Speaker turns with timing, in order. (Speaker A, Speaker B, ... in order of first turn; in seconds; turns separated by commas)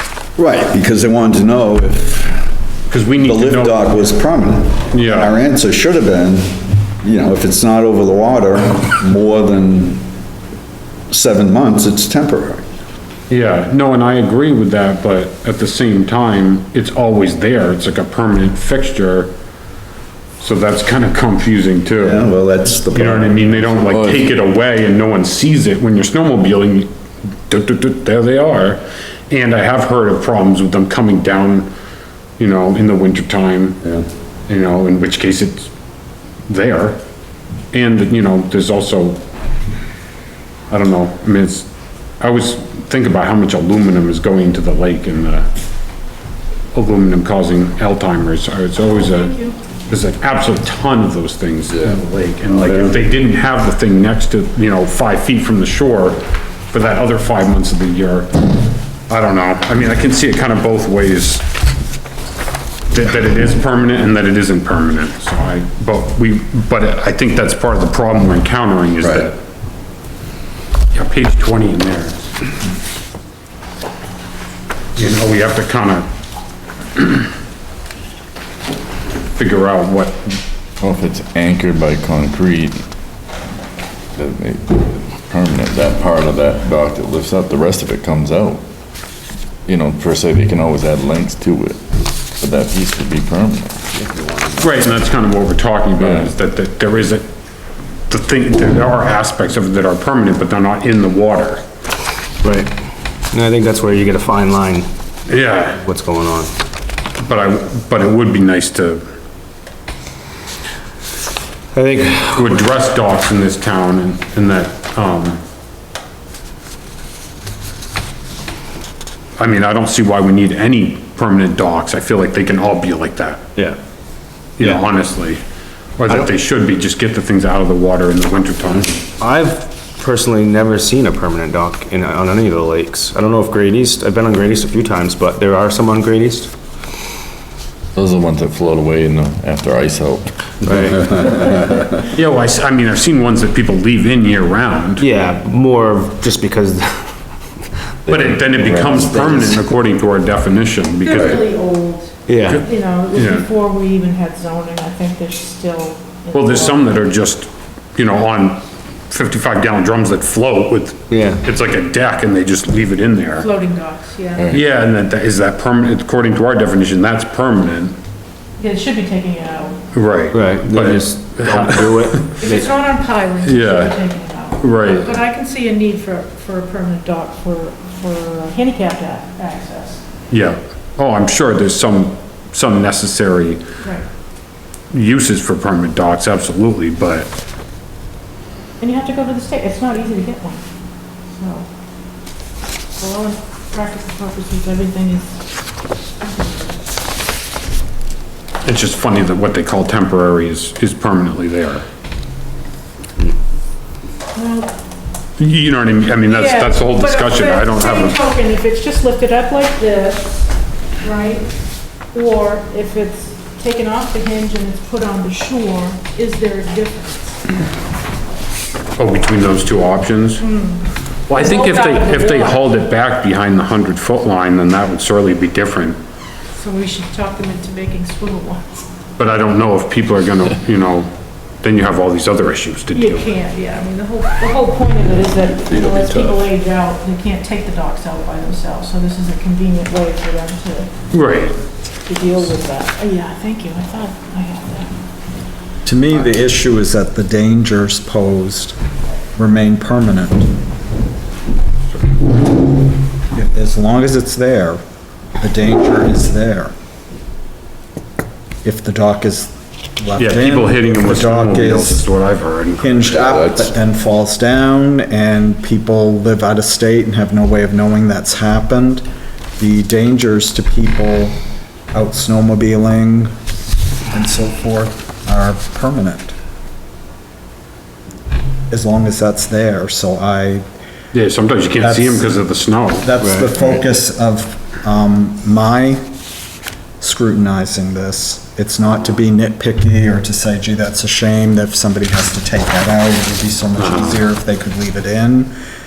Speaker A: 0.4-2.4, Speaker B: 2.9-3.9, Speaker A: 3.2-10.1, Speaker B: 4.9-5.4, Speaker A: 11.1-12.6, Speaker B: 13.3-19.3, Speaker B: 20.4-26.9, Speaker A: 22.0-23.7, Speaker C: 23.8-24.3, Speaker B: 27.5-31.7, Speaker B: 32.4-33.8, Speaker B: 34.5-35.7, Speaker B: 36.5-37.0, Speaker B: 37.7-39.2, Speaker B: 40.7-41.7, Speaker B: 42.2-45.5, Speaker B: 46.7-49.4, Speaker B: 49.9-56.2, Speaker B: 56.7-58.3, Speaker B: 59.1-61.5, Speaker B: 62.9-69.4, Speaker B: 70.9-72.3, Speaker B: 75.0-76.1, Speaker B: 77.0-77.2, Speaker B: 79.3-80.4, Speaker C: 80.8-82.8, Speaker C: 84.2-88.6, Speaker C: 89.7-91.8, Speaker C: 92.4-93.8, Speaker D: 94.2-94.6, Speaker B: 94.6-97.3, Speaker B: 98.1-101.6, Speaker D: 102.4-102.7, Speaker D: 103.3-104.9, Speaker B: 105.3-105.8, Speaker D: 105.7-106.5, Speaker B: 107.2-109.0, Speaker D: 111.7-112.6, Speaker B: 112.3-115.4, Speaker B: 119.4-123.4, Speaker B: 124.6-125.4, Speaker B: 126.0-129.0, Speaker D: 129.2-136.5, Speaker C: 137.9-141.8, Speaker D: 140.6-141.2, Speaker B: 142.1-145.1, Speaker D: 145.0-147.2, Speaker D: 148.1-149.6, Speaker B: 148.1-151.4, Speaker E: 151.0-156.9, Speaker D: 152.3-152.7, Speaker B: 152.5-153.5, Speaker B: 156.3-163.5, Speaker D: 161.1-161.4, Speaker E: 163.4-164.5, Speaker C: 164.4-164.7, Speaker B: 164.5-168.0, Speaker E: 168.6-169.8, Speaker B: 169.9-172.4, Speaker D: 170.3-172.7, Speaker E: 172.4-180.0, Speaker B: 173.4-174.0, Speaker B: 174.6-175.2, Speaker B: 180.3-183.6, Speaker B: 184.9-187.3, Speaker E: 188.8-190.6, Speaker E: 191.3-191.7, Speaker E: 193.0-195.4, Speaker E: 196.2-196.8, Speaker B: 198.6-201.8, Speaker E: 204.3-204.7, Speaker B: 205.4-208.2, Speaker E: 206.3-210.3, Speaker E: 211.0-211.5, Speaker E: 212.1-217.5, Speaker B: 219.0-220.4, Speaker E: 220.4-222.7, Speaker B: 221.3-226.0, Speaker E: 226.6-228.9, Speaker B: 229.2-231.1, Speaker B: 231.6-233.3, Speaker E: 232.9-240.9, Speaker C: 235.7-236.4, Speaker B: 241.1-241.6, Speaker E: 242.1-244.9, Speaker F: 245.8-248.8, Speaker F: 249.3-250.5, Speaker F: 253.3-254.8, Speaker F: 255.4-256.7, Speaker F: 258.6-262.1, Speaker B: 260.2-263.1, Speaker F: 262.8-269.0, Speaker C: 263.2-263.7, Speaker F: 269.6-271.4, Speaker F: 271.9-273.4, Speaker F: 274.1-276.4, Speaker F: 278.7-280.6, Speaker B: 281.1-283.1, Speaker F: 281.8-282.3, Speaker F: 283.0-286.1, Speaker D: 283.2-283.5, Speaker F: 287.0-295.5, Speaker B: 293.8-294.2